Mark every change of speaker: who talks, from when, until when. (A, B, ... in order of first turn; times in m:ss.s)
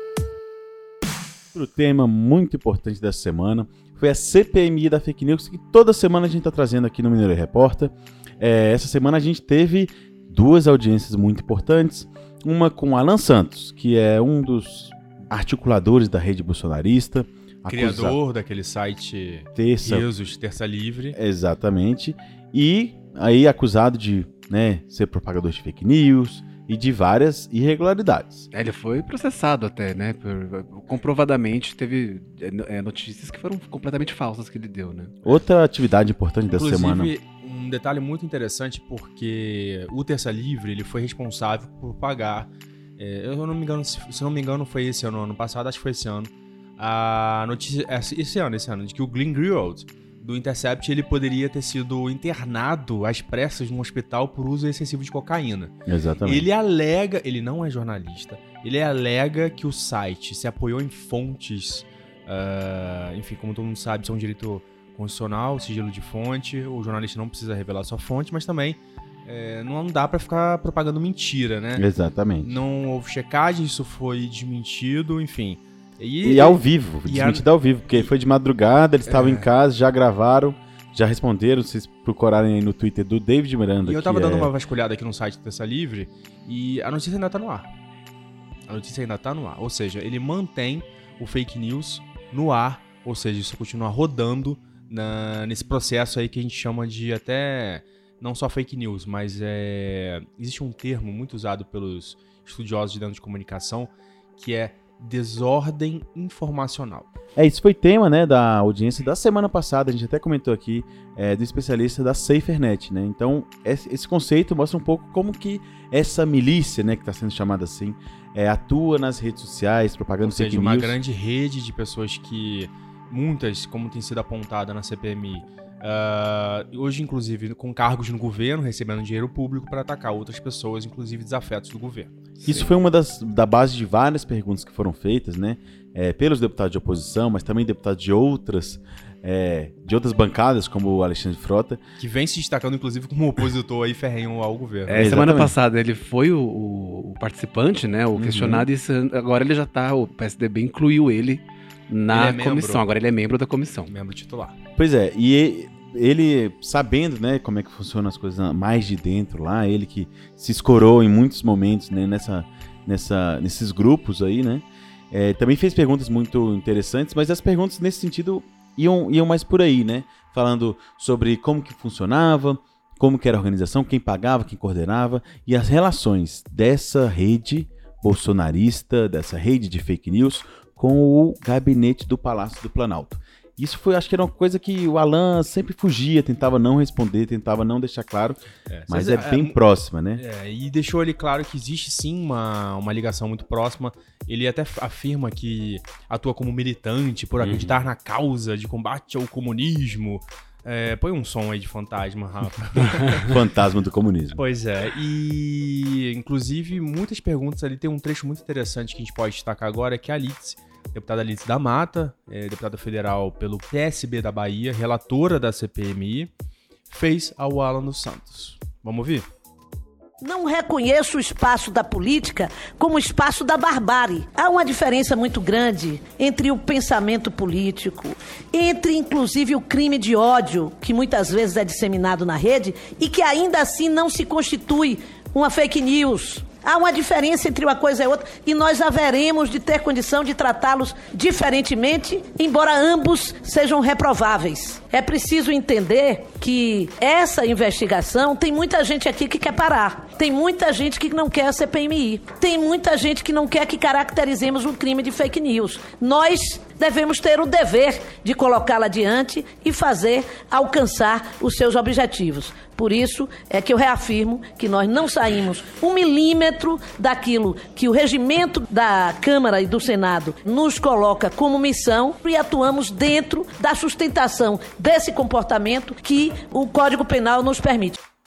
0:01.5-0:18.2 A
0:17.7-0:21.2 B
0:19.5-0:20.1 A
0:21.1-0:28.5 A
0:28.5-0:35.2 C
0:35.2-0:37.1 A
0:36.5-0:55.7 B
0:55.8-0:56.4 A
0:56.2-1:11.8 B
1:11.8-1:12.6 A
1:12.4-1:17.4 B
1:16.2-1:24.5 A
1:19.1-1:19.5 B
1:23.8-1:27.7 B
1:28.7-1:47.1 B
1:47.4-2:01.0 A
2:00.2-2:12.7 B
2:12.4-2:21.8 A
2:22.0-2:25.2 B
2:24.9-2:33.9 C
2:25.0-2:25.5 A
2:28.1-2:28.7 A
2:32.1-2:32.8 B
2:33.9-2:34.6 B
2:34.8-3:08.4 A
3:08.7-3:09.6 B
3:08.9-3:10.2 A
3:10.2-3:23.3 B
3:17.4-3:17.7 A
3:23.2-3:24.4 A
3:24.4-3:36.3 B
3:36.9-3:39.3 B
3:40.2-4:38.0 D